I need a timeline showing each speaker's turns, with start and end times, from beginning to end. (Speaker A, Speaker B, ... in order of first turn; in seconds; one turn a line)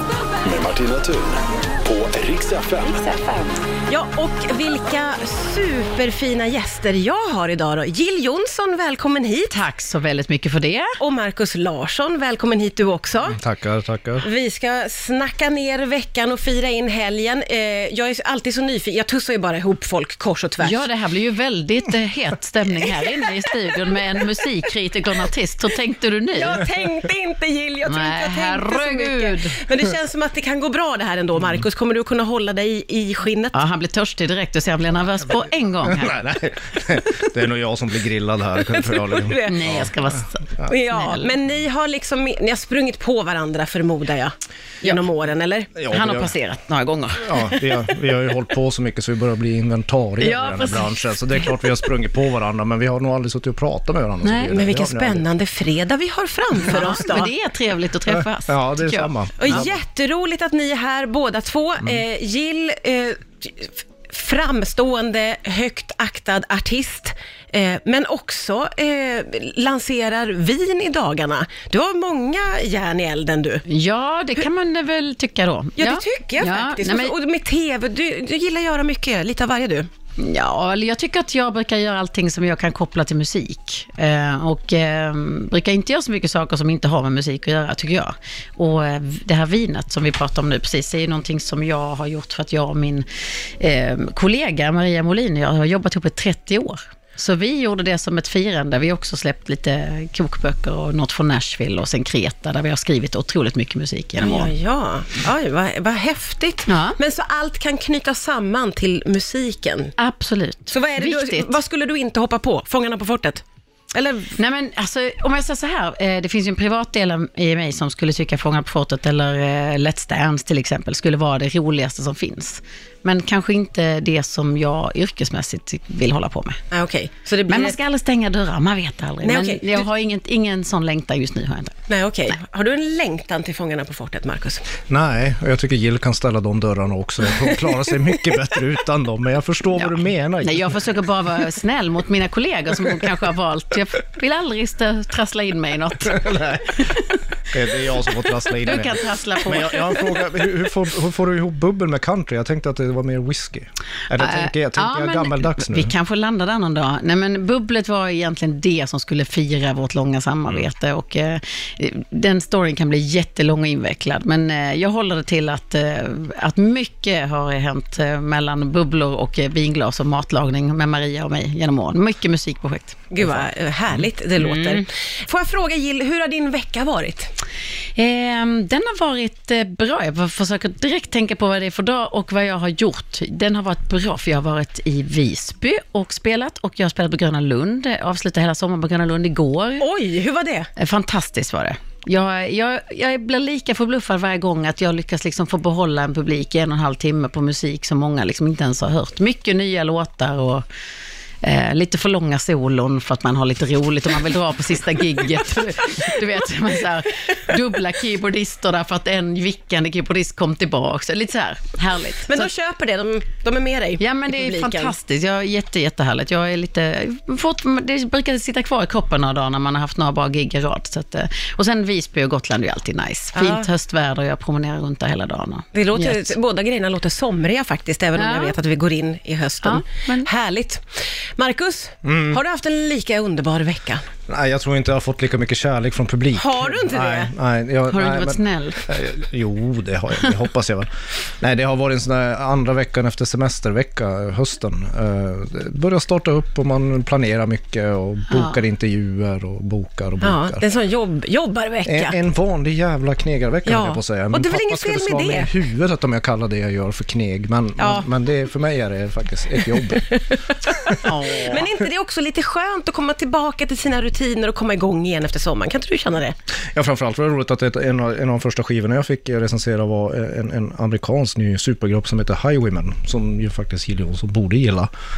Speaker A: 0.4-3.3
Speaker B: 3.9-9.6
Speaker C: 9.5-10.9
Speaker B: 11.0-13.4
Speaker D: 13.3-14.2
Speaker B: 14.2-20.9
Speaker C: 20.6-26.6
Speaker B: 22.8-23.6
Speaker B: 26.4-33.6
Speaker C: 27.9-29.6
Speaker C: 33.5-36.2
Speaker D: 35.8-39.9
Speaker B: 38.7-39.6
Speaker C: 39.4-41.3
Speaker B: 40.7-45.7
Speaker D: 45.7-46.3
Speaker C: 45.9-47.7
Speaker D: 47.2-55.2
Speaker C: 50.2-51.5
Speaker C: 54.2-54.5
Speaker B: 54.5-57.3
Speaker C: 56.6-59.6
Speaker D: 58.1-59.8
Speaker B: 59.4-73.6
Speaker C: 73.7-77.1
Speaker B: 75.8-79.9
Speaker C: 80.2-93.0
Speaker C: 93.6-104.5
Speaker B: 104.2-109.9
Speaker C: 106.7-107.0
Speaker C: 110.0-111.5
Speaker B: 110.7-114.4
Speaker C: 114.4-126.6
Speaker B: 126.7-127.8
Speaker C: 127.5-131.8
Speaker B: 129.2-129.8
Speaker B: 131.9-134.7
Speaker D: 134.9-140.8
Speaker C: 139.8-147.2
Speaker D: 146.1-146.8
Speaker D: 147.5-155.9
Speaker C: 148.5-150.2
Speaker C: 154.2-173.4
Speaker B: 173.1-177.3
Speaker C: 174.4-174.8
Speaker C: 177.9-189.8
Speaker B: 189.8-190.7
Speaker C: 190.8-200.6
Speaker C: 201.4-212.5
Speaker B: 212.3-214.9
Speaker C: 214.0-226.3
Speaker B: 223.3-223.7
Speaker B: 225.7-234.0
Speaker C: 228.1-228.6
Speaker C: 229.6-230.3
Speaker D: 232.0-232.4
Speaker D: 234.3-250.6
Speaker B: 236.3-237.3
Speaker C: 237.9-238.8
Speaker C: 248.3-248.6
Speaker B: 250.2-252.1
Speaker D: 251.8-260.2
Speaker B: 253.7-255.5
Speaker B: 257.8-258.1
Speaker B: 259.8-266.3
Speaker C: 260.9-261.7
Speaker D: 266.7-274.9